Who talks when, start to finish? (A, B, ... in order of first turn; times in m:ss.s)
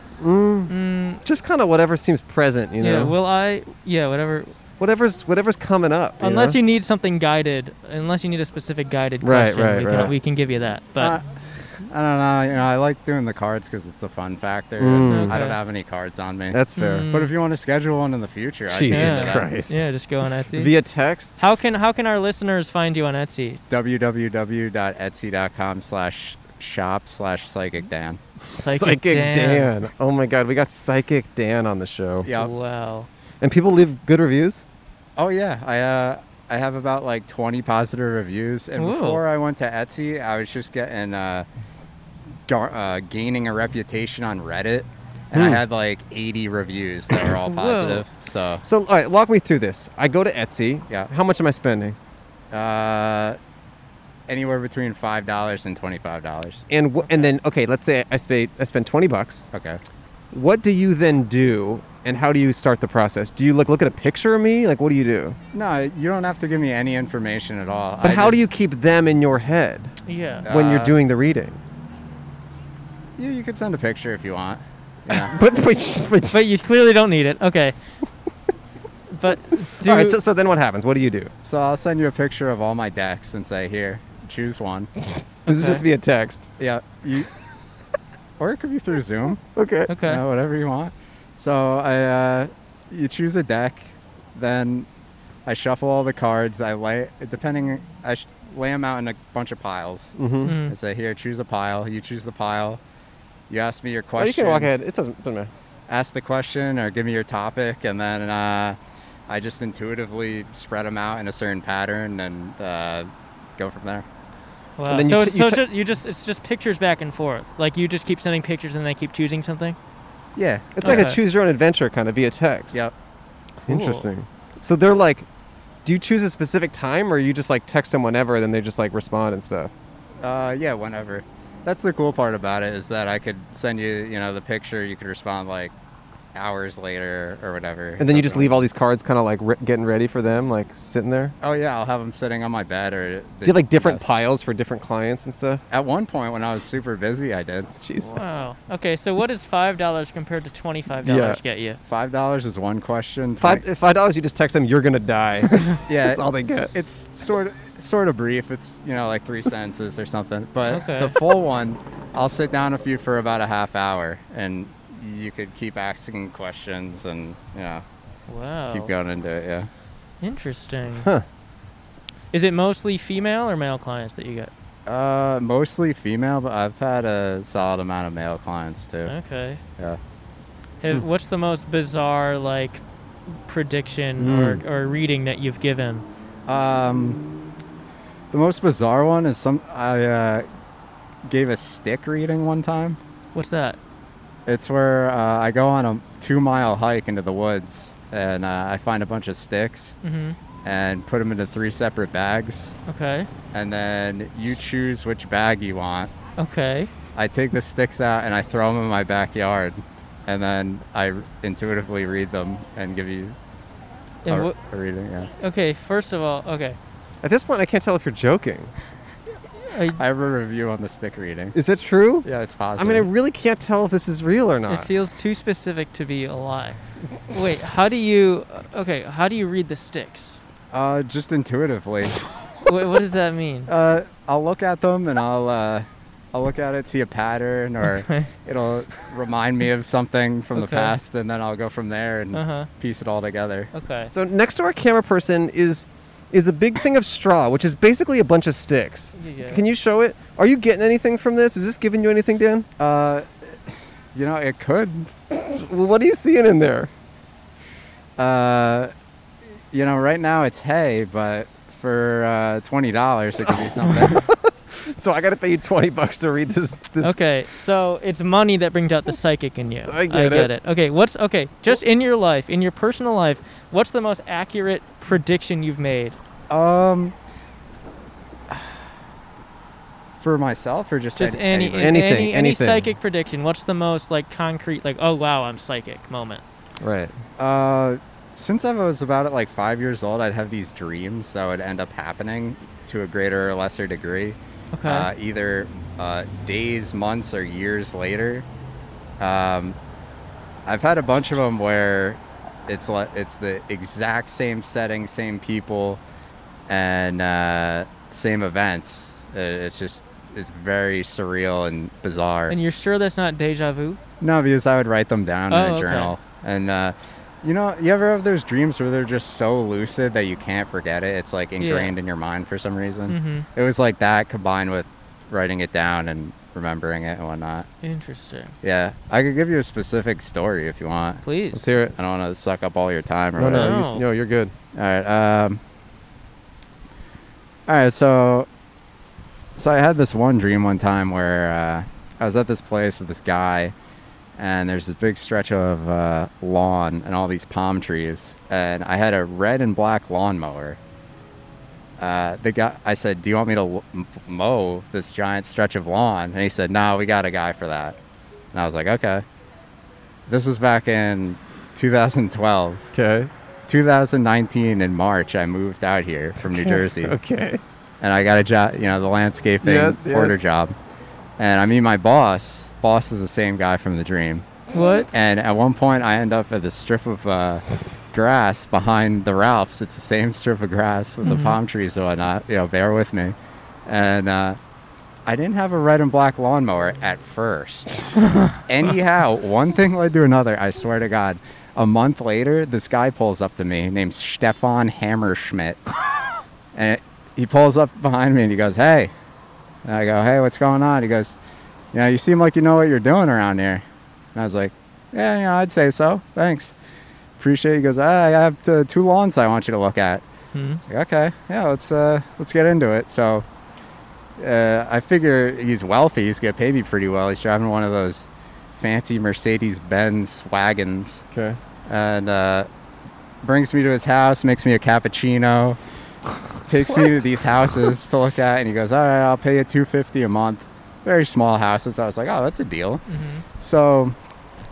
0:00.2-0:00.7 A
0:00.7-0:01.2 B
0:01.2-0:03.1 A
0:02.8-0:04.6 B
0:04.8-0:06.6 A
0:06.2-0:11.2 B
0:09.2-0:10.1 A
0:11.0-0:19.5 C
0:14.8-0:15.4 A
0:15.0-0:15.6 B
0:16.5-0:17.1 A
0:16.8-0:17.3 B
0:18.7-0:19.9 A
0:18.9-0:20.7 B
0:20.5-0:21.3 A
0:21.4-0:23.6 B
0:23.7-0:28.2 C
0:28.5-0:32.3 A
0:28.5-0:29.7 B
0:32.2-0:32.5 C
0:32.3-0:33.1 B
0:33.4-0:34.6 A
0:35.2-0:41.5 C
0:38.8-0:39.2 B
0:42.5-0:48.6 C
0:45.3-0:45.6 A
0:47.5-0:48.0 B
0:48.6-0:52.0 A
0:52.5-0:53.4 C
0:54.3-0:56.6 C
0:56.7-0:59.5 A
0:57.0-0:57.3 B
0:59.5-0:59.8 C
1:00.3-1:05.4 A
1:05.5-1:08.4 C
1:08.0-1:09.9 A
1:10.1-1:10.5 B
1:10.4-1:11.0 C
1:10.5-1:11.6 A
1:13.2-1:15.3 C
1:15.1-1:16.4 A
1:16.3-1:17.8 B
1:19.1-1:20.2 B
1:19.8-1:21.3 A
1:21.4-1:24.9 C
1:25.5-1:26.5 A
1:25.5-1:25.8 B
1:26.6-1:27.3 C
1:28.4-1:29.4 C
1:29.5-1:30.0 A
1:29.9-1:30.2 B
1:30.0-1:34.9 C
1:35.5-1:42.8 C
1:40.2-1:40.6 A
1:40.4-1:40.8 B
1:43.5-1:44.7 C
1:44.2-1:45.5 A
1:45.9-1:48.8 C
1:49.3-1:54.0 C
1:54.8-1:59.8 B
1:54.9-1:55.6 A
2:00.4-2:01.1 C
2:00.8-2:02.8 A
2:00.8-2:01.2 B
2:03.7-2:04.1 B
2:03.7-2:05.3 A
2:05.8-2:09.7 A
2:10.2-2:15.7 C
2:16.3-2:18.6 C
2:18.0-2:21.4 A
2:21.4-2:24.0 C
2:23.4-2:25.6 A
2:25.7-2:27.7 C
2:27.8-2:28.4 A
2:28.0-2:31.8 B
2:31.0-2:31.4 A
2:31.9-2:33.6 C
2:33.4-2:36.7 A
2:35.9-2:47.8 C
2:40.7-2:41.2 B
2:48.3-2:48.9 B
2:48.7-2:49.7 C
2:50.2-2:51.1 B
2:52.3-2:54.5 B
2:54.9-2:59.1 C
2:59.1-2:59.6 B
3:00.8-3:06.0 B
3:04.2-3:04.6 A
3:06.5-3:07.2 C
3:08.3-3:10.5 C
3:11.3-3:13.0 C
3:13.4-3:13.8 B
3:14.5-3:20.0 C
3:20.0-3:20.4 B
3:20.6-3:22.8 C
3:22.9-3:23.3 B
3:23.5-3:26.1 C
3:26.4-3:26.9 B
3:27.2-3:33.4 C
3:34.2-3:34.6 B
3:34.3-3:35.3 C
3:35.4-3:36.8 B
3:37.2-3:38.7 A
3:39.7-3:40.0 B
3:40.0-3:41.6 C
3:41.5-3:44.9 A
3:42.2-3:43.1 C
3:44.7-3:50.4 B
3:50.7-3:52.2 C
3:52.6-3:53.7 B
3:53.7-4:03.7 C
3:57.8-3:58.3 B
4:00.5-4:00.9 B
4:02.3-4:02.7 B
4:03.7-4:04.1 B
4:04.1-4:12.7 A
4:09.2-4:09.6 B
4:12.8-4:15.1 C
4:15.4-4:16.9 A
4:18.2-4:18.9 C
4:19.7-4:24.2 C
4:23.5-4:27.2 A
4:27.0-4:36.2 B
4:29.9-4:30.5 A
4:36.5-4:37.2 C
4:38.5-4:38.8 C
4:40.2-4:42.0 C
4:41.2-4:46.4 B
4:41.8-4:42.9 A
4:46.8-4:47.1 A
4:47.4-4:58.5 C
4:54.7-4:55.1 B
4:59.2-4:59.8 C
5:00.7-5:06.0 C
5:06.7-5:12.6 C
5:12.5-5:14.0 B
5:14.2-5:27.7 C
5:15.5-5:16.2 B
5:21.6-5:21.9 B
5:23.1-5:23.5 B
5:27.8-5:28.5 B
5:28.6-5:31.2 C
5:31.2-5:31.7 B
5:31.5-5:32.0 A
5:32.0-5:33.8 C
5:33.4-5:34.5 A
5:33.5-5:34.0 B
5:34.8-5:35.6 C
5:37.7-5:38.5 C
5:39.6-5:43.7 C
5:44.4-5:50.8 C
5:52.0-5:58.0 C
5:58.5-5:59.2 C
6:00.3-6:02.9 C
6:02.9-6:03.3 A
6:03.7-6:07.2 C
6:06.4-6:07.6 A
6:08.0-6:10.7 C
6:09.6-6:10.4 A
6:11.4-6:14.5 C
6:14.7-6:15.1 B
6:15.1-6:23.4 C
6:21.2-6:21.6 B
6:23.9-6:24.6 C
6:25.3-6:28.1 C
6:28.7-6:35.8 C
6:36.7-6:39.1 C
6:39.8-6:41.4 C
6:41.9-6:43.8 C
6:44.4-6:46.7 C
6:47.4-6:50.2 C
6:50.5-6:50.8 B
6:50.9-6:53.4 C
6:54.4-7:01.2 C
7:01.3-7:01.6 A
7:01.9-7:02.7 C
7:03.4-7:05.8 C
7:06.7-7:13.0 C
7:13.1-7:13.4 B
7:13.6-7:14.2 C